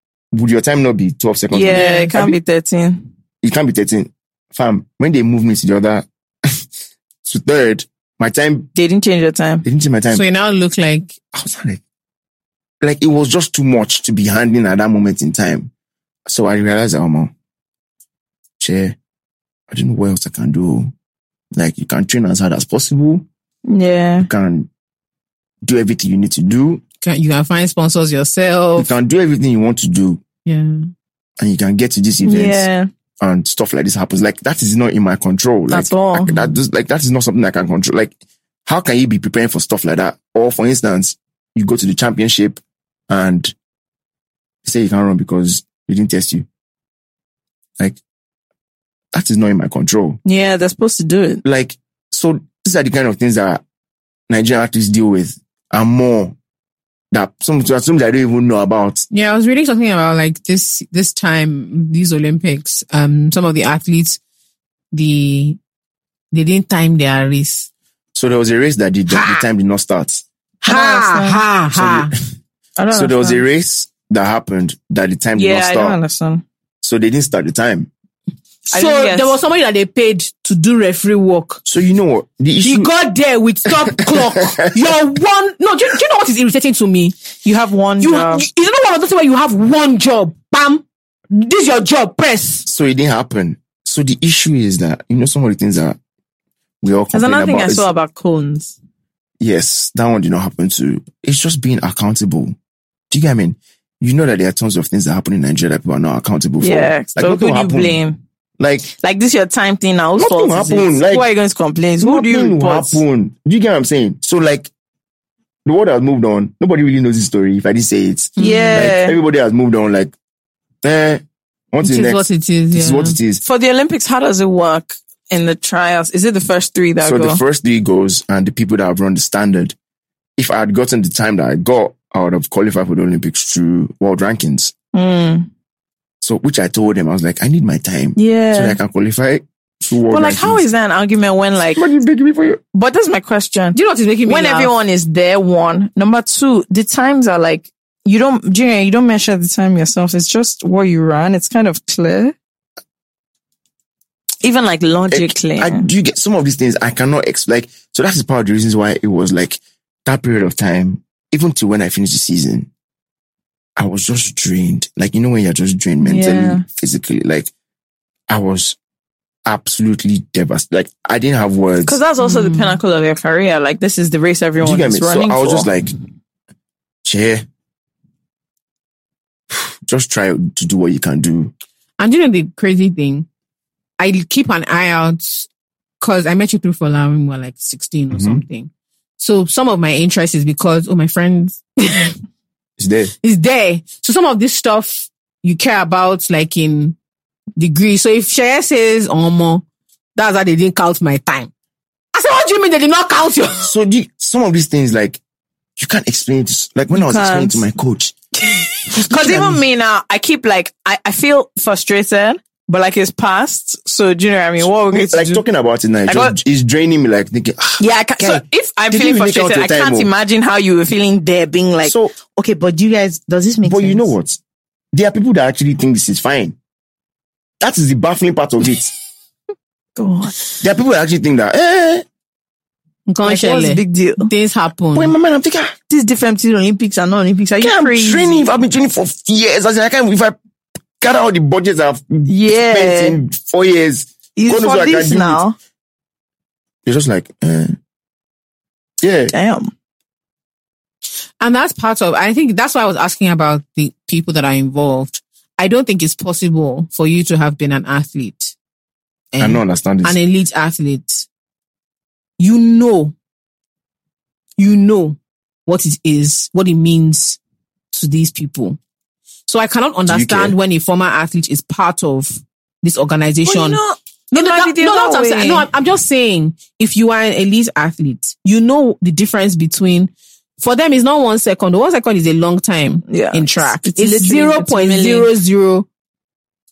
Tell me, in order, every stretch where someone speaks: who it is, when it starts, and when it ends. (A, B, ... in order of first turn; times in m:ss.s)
0:00.3-0:02.4 A
0:01.5-0:03.0 B
0:01.7-0:02.2 C
0:03.4-0:06.6 A
0:07.2-0:08.7 A
0:08.8-0:09.6 B
0:09.6-0:10.2 A
0:10.1-0:11.2 C
0:11.3-0:11.8 A
0:12.8-0:15.7 A
0:16.3-0:17.3 A
0:18.6-0:19.0 A
0:19.7-0:20.9 A
0:21.6-0:23.3 A
0:23.7-0:24.3 B
0:24.2-0:24.7 A
0:25.6-0:26.8 A
0:27.0-0:28.9 C
0:28.8-0:30.2 A
0:30.4-0:30.9 C
0:31.4-0:32.7 A
0:32.2-0:32.9 B
0:33.2-0:38.1 A
0:35.7-0:36.5 B
0:38.7-0:43.5 A
0:44.6-0:46.5 A
0:49.1-0:50.2 A
0:50.2-0:51.4 B
0:51.4-0:53.6 A
0:54.3-0:56.4 A
0:57.1-0:59.1 A
0:59.1-1:04.2 C
1:04.9-1:05.6 C
1:06.3-1:07.7 C
1:08.2-1:10.2 A
1:09.1-1:09.4 C
1:10.6-1:12.1 C
1:10.7-1:11.4 B
1:11.7-1:12.2 A
1:12.8-1:13.4 B
1:12.9-1:16.0 A
1:15.4-1:16.4 B
1:16.8-1:17.9 A
1:18.7-1:19.3 B
1:18.7-1:21.6 C
1:21.7-1:22.9 A
1:22.6-1:27.2 C
1:24.0-1:24.8 A
1:27.4-1:28.4 B
1:28.0-1:32.6 C
1:32.7-1:36.0 A
1:36.8-1:37.9 A
1:37.1-1:38.8 B
1:39.4-1:42.6 A
1:43.1-1:48.0 A
1:46.6-1:48.2 B
1:48.6-1:48.9 A
1:48.9-1:53.0 B
1:50.2-1:51.3 A
1:52.0-1:54.7 A
1:55.6-2:00.1 A
1:58.4-1:58.9 C
1:58.4-1:59.2 B
2:00.8-2:03.4 A
2:01.8-2:03.2 C
2:03.4-2:07.4 B
2:07.0-2:09.8 A
2:10.4-2:14.7 A
2:14.9-2:15.5 B
2:16.2-2:20.6 A
2:18.2-2:18.8 B
2:20.1-2:21.8 B
2:21.8-2:22.6 A
2:22.7-2:32.4 B
2:23.7-2:24.7 C
2:34.4-2:35.9 B
2:35.1-2:42.7 A
2:43.8-2:47.5 A
2:46.0-2:46.6 B
2:48.3-2:48.8 A
2:49.5-2:52.0 A
2:51.9-2:55.7 B
2:52.2-2:52.8 C
2:54.6-2:55.9 A
2:57.0-2:57.4 A
2:59.5-3:01.5 A
3:02.0-3:03.3 C
3:04.0-3:05.5 C
3:06.0-3:12.2 C
3:08.1-3:08.4 A
3:12.8-3:13.1 A
3:13.2-3:17.0 C
3:17.6-3:19.6 C
3:20.2-3:21.5 C
3:22.1-3:23.7 C
3:23.6-3:25.2 A
3:25.8-3:28.2 A
3:26.9-3:27.6 B
3:28.4-3:35.4 B
3:29.0-3:29.6 A
3:34.6-3:40.1 A
3:36.1-3:36.4 B
3:37.8-3:44.1 B
3:41.8-3:42.1 A
3:43.6-3:44.4 A
3:44.9-3:46.6 A
3:47.6-3:48.9 A
3:50.0-3:50.5 B
3:50.6-3:52.0 A
3:53.1-3:55.2 C
3:53.2-3:54.3 B
3:55.0-3:55.8 A
3:55.9-3:58.4 B
3:57.6-4:00.4 A
4:01.0-4:05.4 A
4:02.3-4:03.2 B
4:04.4-4:05.6 B
4:06.8-4:07.8 A
4:09.0-4:09.3 A
4:09.3-4:09.7 B
4:11.4-4:18.6 C
4:19.3-4:21.3 C
4:19.4-4:20.2 A
4:22.4-4:23.2 C
4:24.6-4:27.4 C
4:27.9-4:28.8 C
4:29.5-4:33.8 C
4:30.1-4:30.6 A
4:33.5-4:35.7 B
4:34.3-4:45.9 C
4:43.1-4:45.3 B